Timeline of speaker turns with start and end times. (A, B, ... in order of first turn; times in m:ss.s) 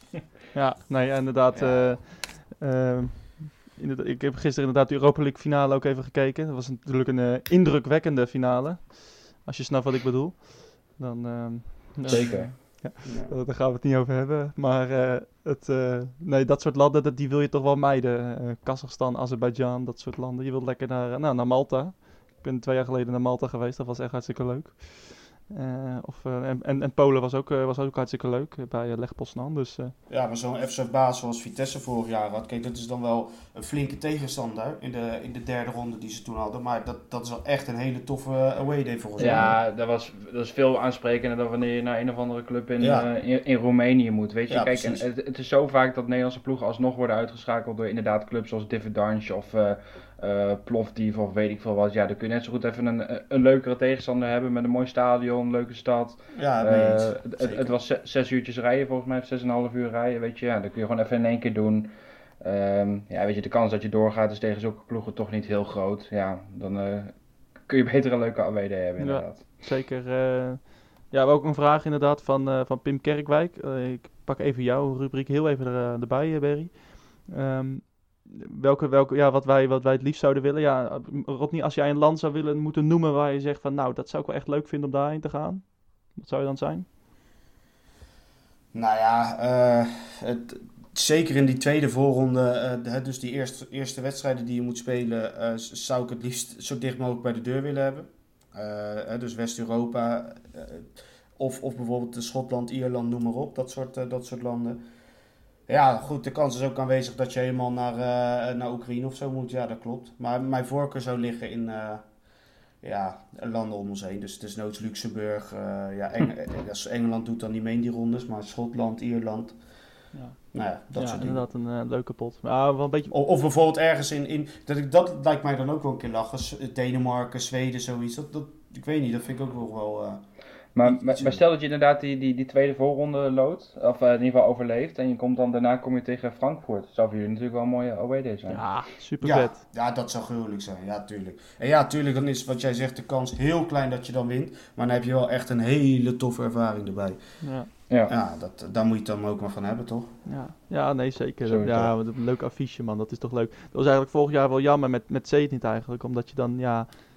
0:00.5-0:29.9 A
0:01.5-0:02.1 B
0:12.1-0:12.5 B
0:12.1-0:12.6 C
0:13.0-0:13.3 B
0:30.1-0:39.6 B
0:39.2-1:09.4 C
0:42.8-0:43.1 B
0:44.5-0:45.0 B
0:56.3-0:57.7 B
1:09.0-1:26.9 A
1:28.7-1:44.8 B
1:45.7-1:52.0 B
1:52.8-1:59.6 B
2:00.1-2:00.4 A
2:00.5-2:01.4 B
2:00.9-2:03.1 A
2:03.1-2:10.2 B
2:10.7-2:18.6 C
2:10.8-2:11.4 B
2:18.5-2:19.6 A
2:19.2-2:27.2 B
2:27.4-2:27.7 A
2:28.1-2:30.1 B
2:30.2-2:36.9 A
2:31.4-2:31.9 C